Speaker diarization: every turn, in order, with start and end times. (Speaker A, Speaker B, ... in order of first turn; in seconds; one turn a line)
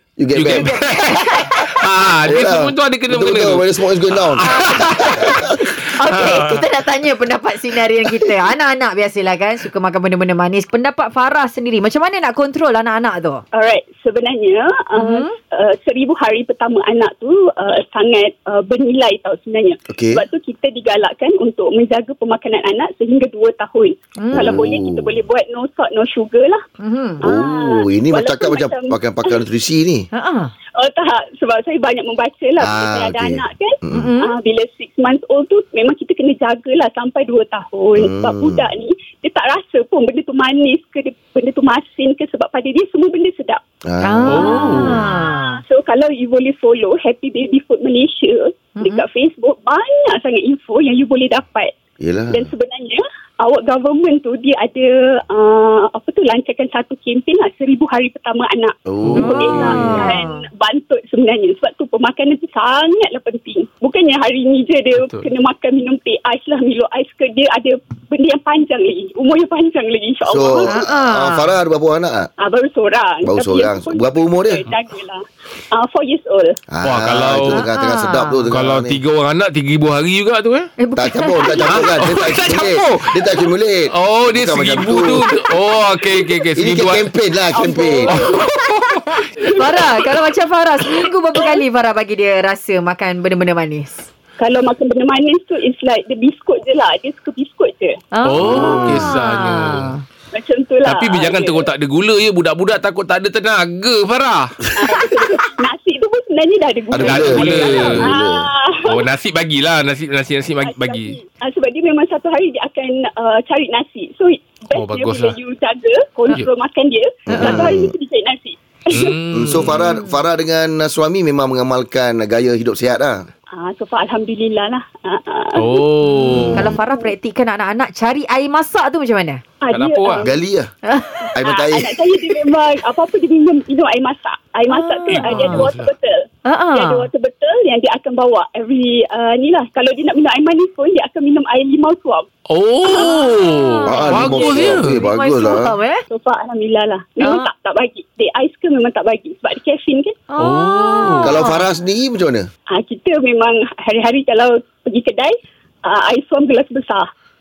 Speaker A: 0.2-1.0
Speaker B: 0.4-0.9
Speaker C: 0.5-1.5
Speaker B: 1.6-6.7
Speaker A: 2.3-5.4
Speaker C: 4.5-13.4
Speaker D: 13.6-26.6
Speaker C: 15.0-15.3
Speaker A: 19.9-20.2
Speaker C: 24.2-24.6
Speaker A: 24.3-25.1
Speaker C: 26.8-27.2
Speaker D: 27.2-29.4
Speaker A: 27.2-30.1
Speaker C: 30.1-30.5
Speaker D: 30.8-43.6
Speaker A: 32.6-34.1
Speaker C: 33.9-34.3
Speaker A: 38.0-38.6
Speaker A: 43.9-44.9
Speaker C: 44.0-45.6
Speaker B: 44.3-45.0
Speaker D: 44.5-51.7
Speaker C: 48.8-49.0
Speaker A: 52.0-52.5
Speaker D: 52.3-70.7
Speaker A: 58.9-60.1
Speaker B: 59.0-60.1
Speaker C: 59.2-60.4
Speaker B: 65.0-65.3
Speaker A: 70.3-72.3
Speaker C: 70.7-71.5
Speaker D: 72.4-76.6
Speaker A: 73.3-74.6
Speaker A: 76.7-79.0
Speaker B: 76.8-77.6
Speaker C: 77.5-78.5
Speaker B: 78.5-80.7
Speaker C: 80.8-81.8
Speaker A: 81.0-85.3
Speaker B: 81.7-83.2
Speaker B: 83.9-87.0
Speaker A: 86.6-88.2
Speaker D: 87.5-88.5
Speaker B: 88.1-89.1
Speaker D: 89.2-90.1
Speaker C: 89.6-94.0
Speaker D: 91.3-91.6
Speaker D: 94.4-98.0
Speaker C: 98.1-100.0
Speaker B: 98.2-99.9
Speaker A: 98.4-99.1
Speaker D: 100.3-101.7
Speaker B: 100.9-104.6
Speaker D: 104.8-109.0
Speaker A: 106.9-108.5
Speaker B: 107.0-108.1
Speaker B: 108.9-111.2
Speaker D: 110.6-119.2
Speaker B: 114.8-115.4
Speaker A: 117.3-117.9
Speaker B: 118.9-119.9
Speaker A: 119.3-123.2
Speaker C: 119.7-120.2
Speaker D: 123.5-125.9
Speaker B: 125.6-126.7
Speaker A: 126.3-126.8
Speaker C: 126.5-129.4
Speaker D: 126.8-127.1
Speaker D: 129.6-130.3
Speaker B: 129.7-130.2
Speaker A: 130.2-130.7
Speaker C: 130.9-131.3
Speaker D: 131.3-142.3
Speaker A: 131.3-132.0
Speaker C: 134.7-135.6
Speaker B: 135.1-135.9
Speaker C: 136.5-137.1
Speaker B: 142.5-145.0
Speaker D: 142.8-143.4
Speaker C: 143.0-146.0
Speaker A: 143.8-145.7
Speaker D: 144.0-144.6
Speaker D: 146.1-150.2
Speaker C: 147.2-147.5
Speaker C: 150.3-151.6
Speaker B: 150.4-151.4
Speaker A: 151.2-152.5
Speaker D: 152.7-157.1